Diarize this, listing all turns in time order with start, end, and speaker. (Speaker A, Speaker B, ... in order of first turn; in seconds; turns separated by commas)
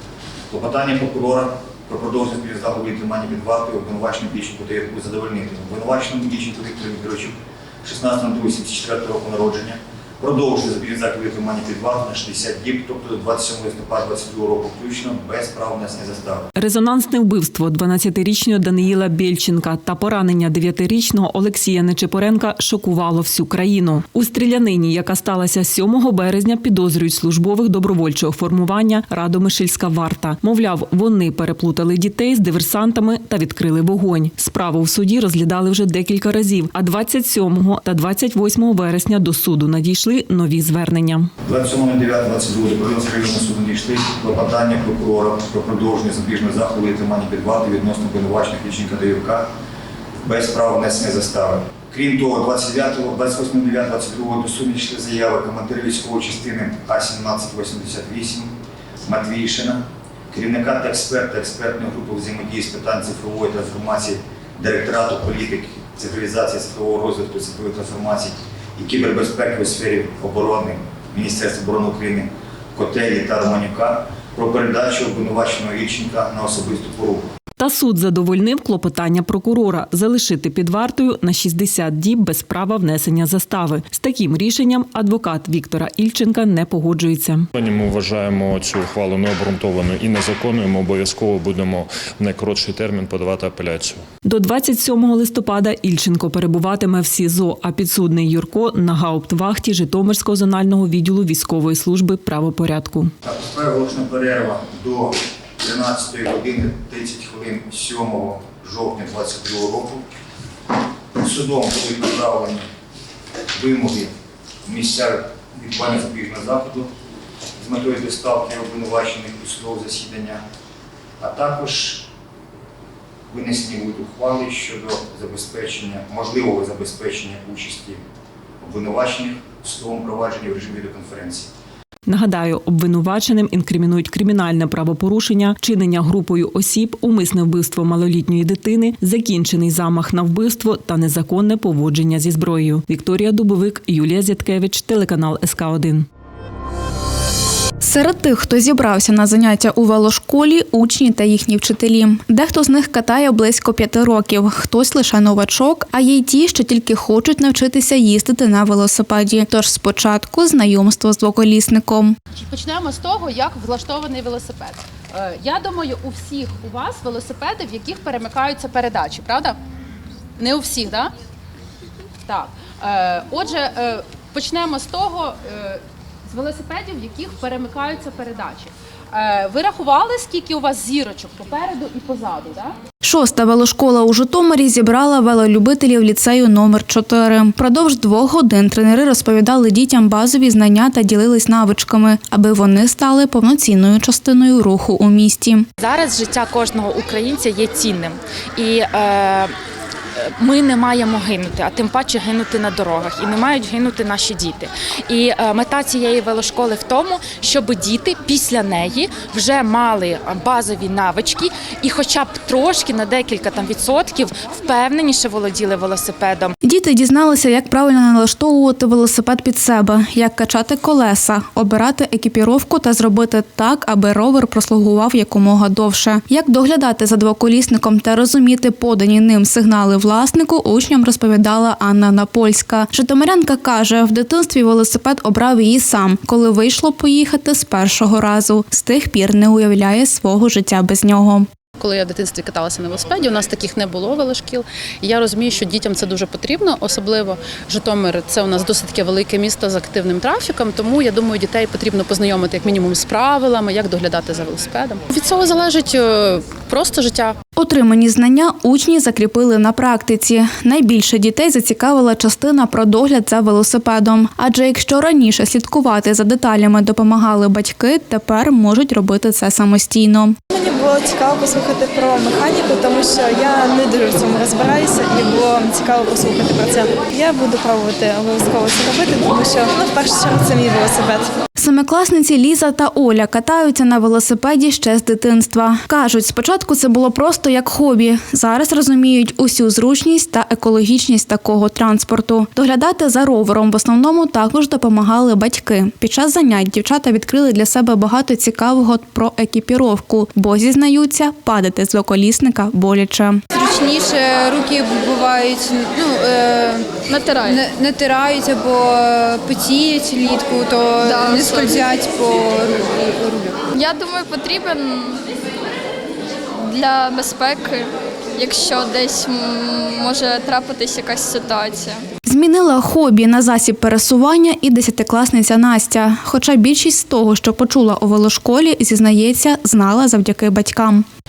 Speaker A: 0.5-7.3, Speaker A: 7.8-16.5, Speaker B: 16.6-41.3, Speaker A: 41.4-49.5, Speaker A: 50.2-58.5, Speaker A: 59.0-77.3, Speaker B: 77.6-87.5, Speaker C: 87.5-94.0, Speaker B: 94.2-103.1, Speaker A: 103.2-110.0, Speaker A: 111.2-112.7, Speaker A: 113.5-114.1, Speaker A: 114.7-116.9, Speaker A: 117.6-120.4, Speaker A: 121.2-122.1, Speaker A: 123.3-128.0, Speaker A: 128.6-131.5, Speaker B: 132.1-146.1, Speaker D: 147.8-162.2, Speaker E: 162.3-169.6, Speaker E: 170.4-171.1, Speaker E: 172.3-182.8, Speaker D: 183.0-195.7, Speaker F: 195.8-199.5, Speaker F: 200.2-216.5, Speaker D: 216.6-241.5, Speaker E: 241.8-257.4, Speaker D: 257.6-270.4, Speaker G: 270.5-281.3, Speaker D: 281.6-303.4, Speaker H: 303.7-306.8, Speaker I: 307.1-307.7, Speaker H: 307.7-313.4, Speaker I: 311.0-311.9, Speaker I: 313.7-315.2, Speaker I: 316.6-322.0, Speaker D: 322.3-331.1